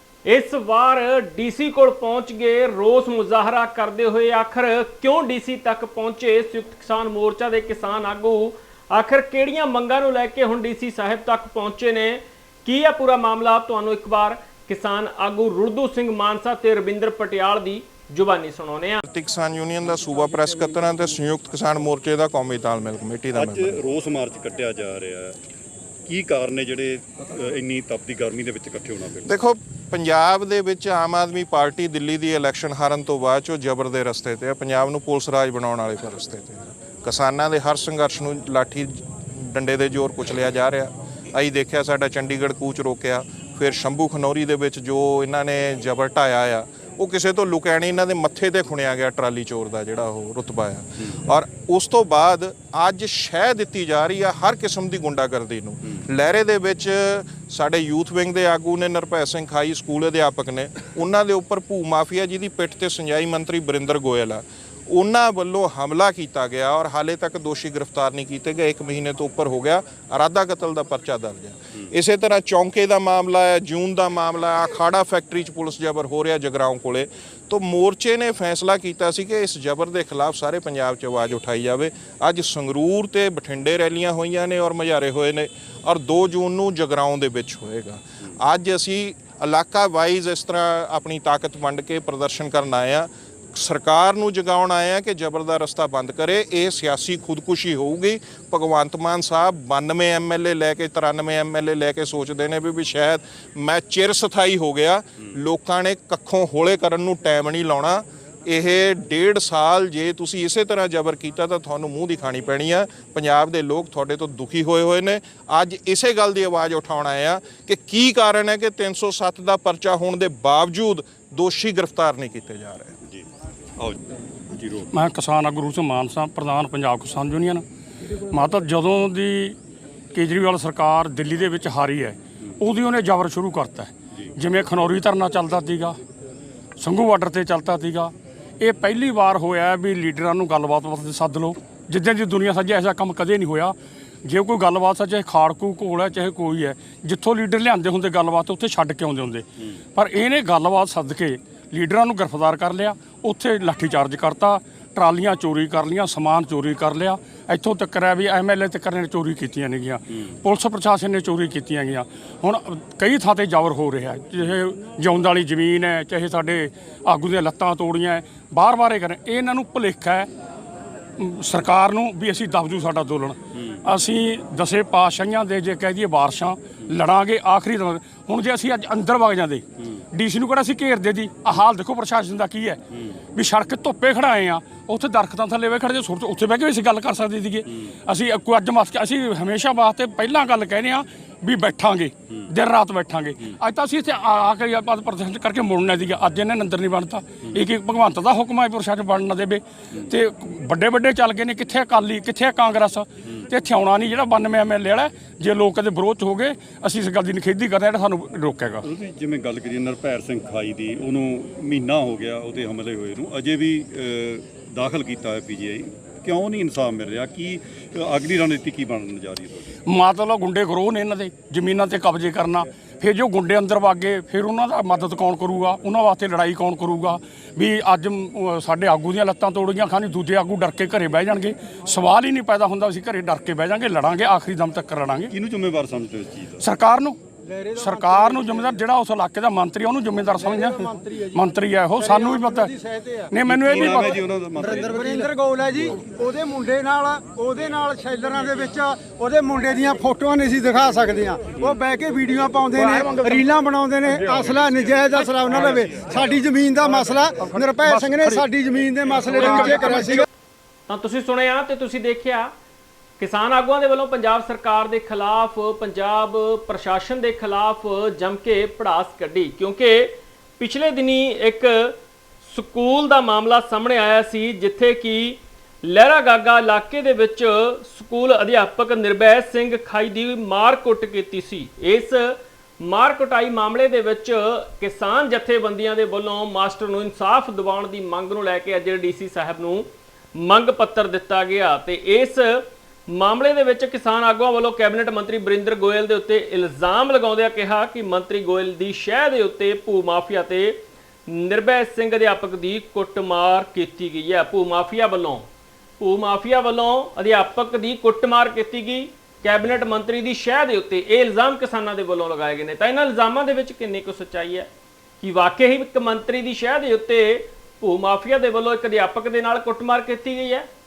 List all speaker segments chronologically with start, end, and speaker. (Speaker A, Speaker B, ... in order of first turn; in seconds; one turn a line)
Speaker A: 0.3-19.0
Speaker B: 19.1-23.8
Speaker C: 23.4-25.4
Speaker C: 26.1-29.3
Speaker B: 29.3-122.9
Speaker C: 124.5-124.9
Speaker D: 124.9-127.7
Speaker D: 128.3-129.6
Speaker D: 130.1-136.0
Speaker D: 136.8-170.3
Speaker D: 171.2-208.9
Speaker C: 182.9-183.2
Speaker C: 187.7-187.9
Speaker C: 208.8-219.7
Speaker D: 219.9-235.3
Speaker C: 235.3-236.7
Speaker D: 236.6-237.2
Speaker E: 237.4-238.8
Speaker D: 237.8-242.7
Speaker E: 240.4-241.4
Speaker E: 242.0-260.3
Speaker D: 243.3-244.2
Speaker C: 243.4-245.3
Speaker D: 252.9-253.4
Speaker D: 257.8-258.4
Speaker D: 259.3-260.1
Speaker A: 260.9-262.5
Speaker A: 263.2-305.5
Speaker A: 306.0-314.7
Speaker A: 315.2-320.7